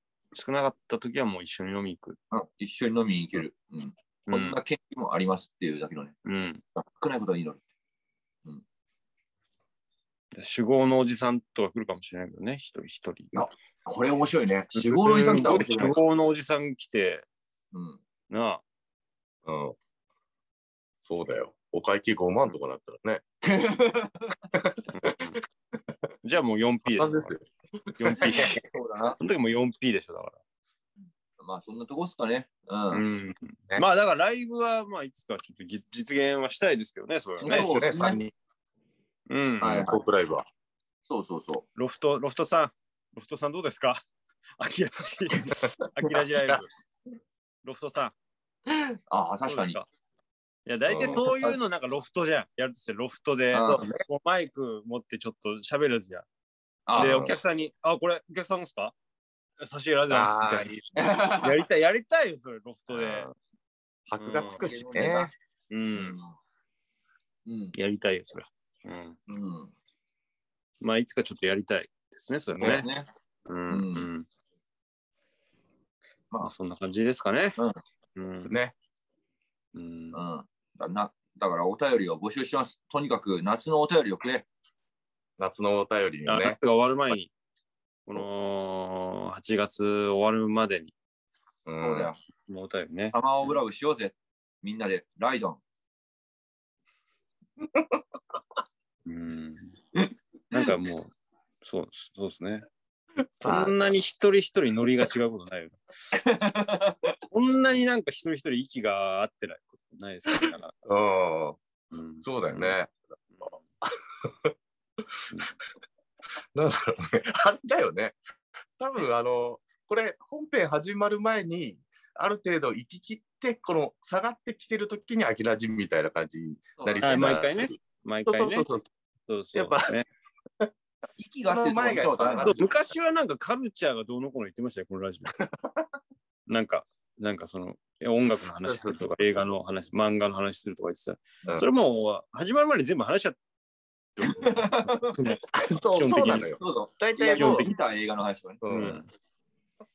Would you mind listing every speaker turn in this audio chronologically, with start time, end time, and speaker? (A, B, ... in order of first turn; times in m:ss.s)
0:00.3-0:02.2 A
0:02.3-0:06.1 B
0:04.3-0:04.6 A
0:06.2-0:06.6 A
0:06.8-0:07.6 B
0:10.3-0:13.3 A
0:13.3-0:16.0 B
0:14.7-0:17.2 A
0:17.7-0:18.0 B
0:18.3-0:18.6 A
0:19.4-0:19.8 C
0:21.0-0:23.2 C
0:23.4-0:24.4 B
0:24.5-0:25.2 C
0:24.9-0:25.4 A
0:26.2-0:27.3 A
0:26.9-0:28.5 C
0:28.0-0:28.6 A
0:28.4-0:29.2 B
0:29.2-0:30.4 A
0:31.4-0:33.0 B
0:32.9-0:37.6 A
0:33.3-0:33.8 C
0:37.4-0:38.2 B
0:37.4-0:38.3 C
0:39.3-0:39.8 A
0:39.6-0:40.0 B
0:39.6-0:40.5 C
0:41.1-0:41.6 B
0:41.8-0:44.0 A
0:44.6-0:46.7 A
0:45.5-0:46.6 C
0:47.6-0:48.1 A
0:48.7-0:49.8 B
0:49.5-0:49.8 A
0:50.6-0:56.2 A
0:50.9-0:51.5 C
0:53.5-0:53.9 B
0:56.9-0:57.4 B
0:57.0-0:57.4 C
0:57.0-0:58.9 A
0:59.6-1:03.3 A
1:00.1-1:00.7 C
1:00.9-1:01.6 B
1:02.9-1:03.3 C
1:04.1-1:05.3 C
1:04.2-1:04.6 A
1:04.6-1:05.3 B
1:05.7-1:06.2 A
1:05.9-1:06.3 B
1:07.4-1:07.7 B
1:07.7-1:09.2 A
1:09.3-1:09.7 B
1:10.8-1:12.9 A
1:12.5-1:12.8 C
1:12.6-1:13.0 B
1:13.4-1:14.3 A
1:13.7-1:14.1 B
1:16.4-1:17.6 A
1:18.2-1:18.6 A
1:18.5-1:18.7 C
1:19.7-1:20.2 A
1:20.1-1:24.4 B
1:25.4-1:26.6 C
1:26.2-1:27.3 A
1:28.0-1:30.9 A
1:31.6-1:32.1 C
1:31.8-1:32.2 B
1:32.5-1:33.2 A
1:33.1-1:35.6 B
1:37.6-1:38.0 C
1:39.0-1:39.7 A
1:40.5-1:42.6 A
1:43.4-1:43.8 C
1:43.4-1:45.8 A
1:46.1-1:47.2 B
1:47.3-1:50.7 A
1:50.8-1:51.6 C
1:51.9-1:52.8 A
1:52.2-1:55.3 C
1:53.3-1:53.6 A
1:56.5-1:58.2 C
1:58.8-2:08.8 C
2:06.8-2:07.4 B
2:07.0-2:08.7 A
2:09.3-2:10.1 A
2:09.5-2:10.0 C
2:11.2-2:12.6 B
2:11.5-2:12.9 C
2:12.4-2:15.3 A
2:15.4-2:15.9 C
2:16.5-2:23.4 A
2:18.6-2:19.2 C
2:24.2-2:26.5 A
2:24.3-2:25.3 B
2:25.5-2:27.7 C
2:26.4-2:29.0 B
2:27.4-2:27.7 A
2:28.6-2:29.0 C
2:28.7-2:29.1 A